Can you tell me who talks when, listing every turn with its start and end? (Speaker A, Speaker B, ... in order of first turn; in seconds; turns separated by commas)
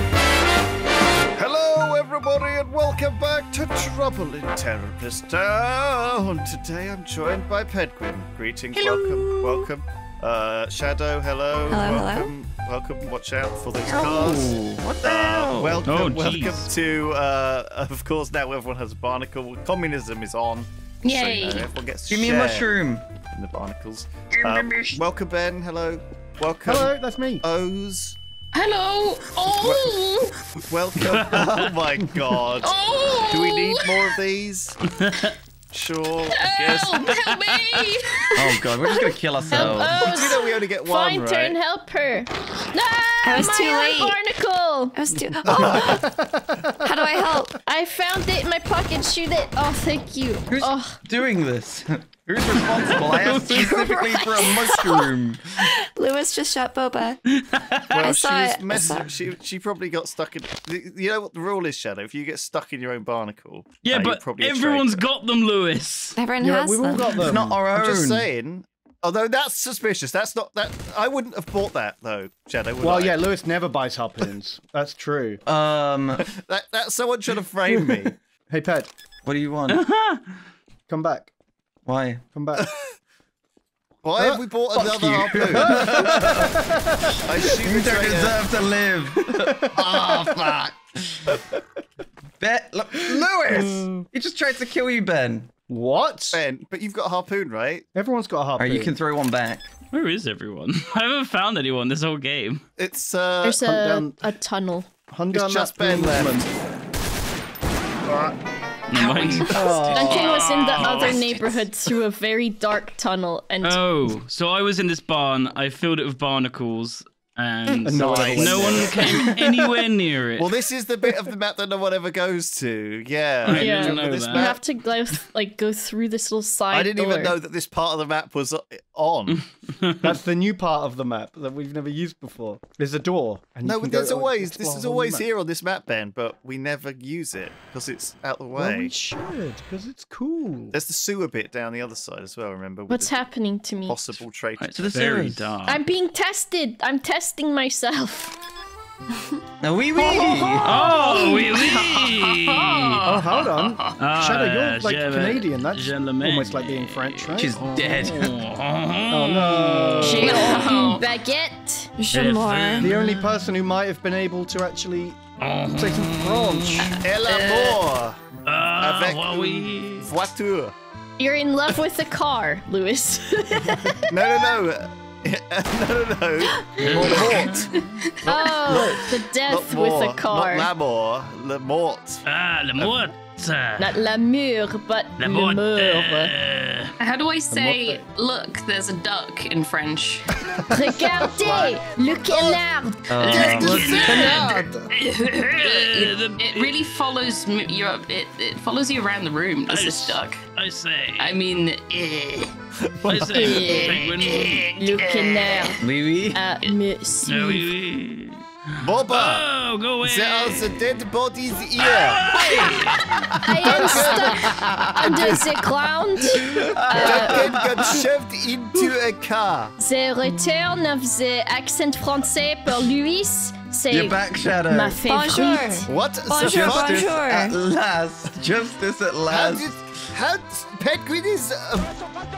Speaker A: 1.4-22.7, Speaker B: 8.7-9.7, Speaker C: 11.7-12.3, Speaker B: 13.8-15.9, Speaker D: 15.8-16.7, Speaker E: 21.0-21.7, Speaker B: 22.1-23.1, Speaker A: 23.3-28.2, Speaker E: 24.4-25.0, Speaker F: 26.6-27.4, Speaker E: 28.5-30.4, Speaker A: 29.6-30.0, Speaker A: 30.7-32.8, Speaker D: 31.0-31.7, Speaker E: 32.6-34.2, Speaker A: 33.3-34.8, Speaker D: 34.9-35.4, Speaker A: 35.7-37.1, Speaker E: 36.4-39.1, Speaker D: 37.1-37.9, Speaker B: 38.4-40.0, Speaker G: 39.5-45.0, Speaker A: 39.6-41.6, Speaker C: 43.2-44.2, Speaker C: 44.9-46.0, Speaker A: 45.5-45.9, Speaker F: 45.5-46.7, Speaker C: 46.8-47.6, Speaker G: 47.7-51.0, Speaker B: 50.5-55.7, Speaker D: 52.9-53.9, Speaker C: 53.7-57.2, Speaker D: 57.3-58.1, Speaker A: 57.9-65.1, Speaker C: 58.0-59.1, Speaker D: 63.8-66.2, Speaker C: 66.2-67.2, Speaker F: 66.4-67.6, Speaker B: 67.2-68.3, Speaker A: 67.7-73.2, Speaker F: 72.8-75.4, Speaker B: 75.5-76.3, Speaker A: 76.2-78.2, Speaker F: 78.5-78.9, Speaker B: 79.2-79.8, Speaker D: 79.7-80.3, Speaker F: 80.9-81.3, Speaker B: 81.9-82.2, Speaker F: 82.3-82.7, Speaker A: 84.0-86.0, Speaker B: 84.7-86.6, Speaker F: 85.6-87.3, Speaker A: 87.2-88.4, Speaker B: 87.5-90.3, Speaker F: 89.2-90.2, Speaker A: 89.7-90.8, Speaker B: 92.4-95.5, Speaker F: 93.1-94.1, Speaker F: 95.7-96.4, Speaker A: 96.3-97.9, Speaker F: 97.9-99.0, Speaker B: 98.6-99.7, Speaker D: 99.9-102.6, Speaker A: 102.8-103.6, Speaker G: 103.4-104.9, Speaker F: 103.6-104.3, Speaker F: 105.1-106.5, Speaker A: 105.3-106.5, Speaker F: 108.1-108.4, Speaker D: 108.9-111.3, Speaker A: 109.0-109.5, Speaker B: 109.5-110.3, Speaker F: 109.5-110.1, Speaker G: 109.9-113.8, Speaker E: 110.1-111.2, Speaker D: 113.6-120.5, Speaker F: 117.8-119.7, Speaker A: 117.9-119.2, Speaker A: 120.4-124.6, Speaker D: 123.4-124.5, Speaker G: 123.5-127.4, Speaker A: 126.7-129.5, Speaker D: 129.7-130.1, Speaker F: 130.0-135.3, Speaker A: 133.6-138.9, Speaker F: 138.5-140.8, Speaker A: 140.7-143.2, Speaker G: 142.9-144.1, Speaker A: 143.9-145.1, Speaker D: 144.6-145.8, Speaker B: 144.8-145.5, Speaker G: 145.7-148.4, Speaker B: 149.6-150.9, Speaker G: 150.0-151.6, Speaker D: 150.6-153.1, Speaker E: 150.9-154.0, Speaker F: 153.1-158.3, Speaker D: 154.0-160.5, Speaker B: 157.4-158.3, Speaker F: 159.1-160.5, Speaker G: 160.0-161.9, Speaker E: 160.2-161.1, Speaker C: 162.0-162.9, Speaker D: 162.1-163.5, Speaker F: 162.8-165.2, Speaker D: 165.4-167.1, Speaker F: 165.7-167.0, Speaker A: 167.0-168.2, Speaker E: 167.3-167.8, Speaker D: 168.5-170.1, Speaker A: 168.7-170.7, Speaker G: 171.2-174.2, Speaker A: 174.1-182.2, Speaker G: 176.8-177.2, Speaker D: 176.8-177.8, Speaker B: 176.9-177.6, Speaker G: 178.2-180.7, Speaker E: 178.2-178.5, Speaker D: 182.2-183.9, Speaker G: 183.8-186.2, Speaker D: 185.2-186.9, Speaker E: 187.0-190.3, Speaker F: 187.5-188.0, Speaker F: 190.5-191.0, Speaker G: 190.7-193.3, Speaker A: 191.4-192.6, Speaker B: 193.1-193.8, Speaker A: 193.2-194.6, Speaker D: 193.2-194.6, Speaker E: 193.3-200.4, Speaker F: 193.4-194.9, Speaker D: 195.2-196.8, Speaker D: 199.7-201.3, Speaker E: 201.2-202.5, Speaker A: 202.8-203.6, Speaker D: 203.0-204.8, Speaker G: 203.3-204.0, Speaker E: 203.4-205.8, Speaker G: 204.8-207.7, Speaker B: 205.8-206.4, Speaker D: 207.2-210.8, Speaker A: 208.8-209.4, Speaker A: 210.0-212.3, Speaker D: 211.8-214.0, Speaker B: 213.3-215.5, Speaker G: 213.4-217.5, Speaker A: 213.6-214.5, Speaker A: 215.1-215.4, Speaker B: 216.3-218.1, Speaker A: 216.9-219.8, Speaker G: 219.8-225.9, Speaker B: 223.9-225.0, Speaker C: 225.0-227.6, Speaker A: 225.9-227.2, Speaker B: 226.4-229.7, Speaker A: 229.3-231.9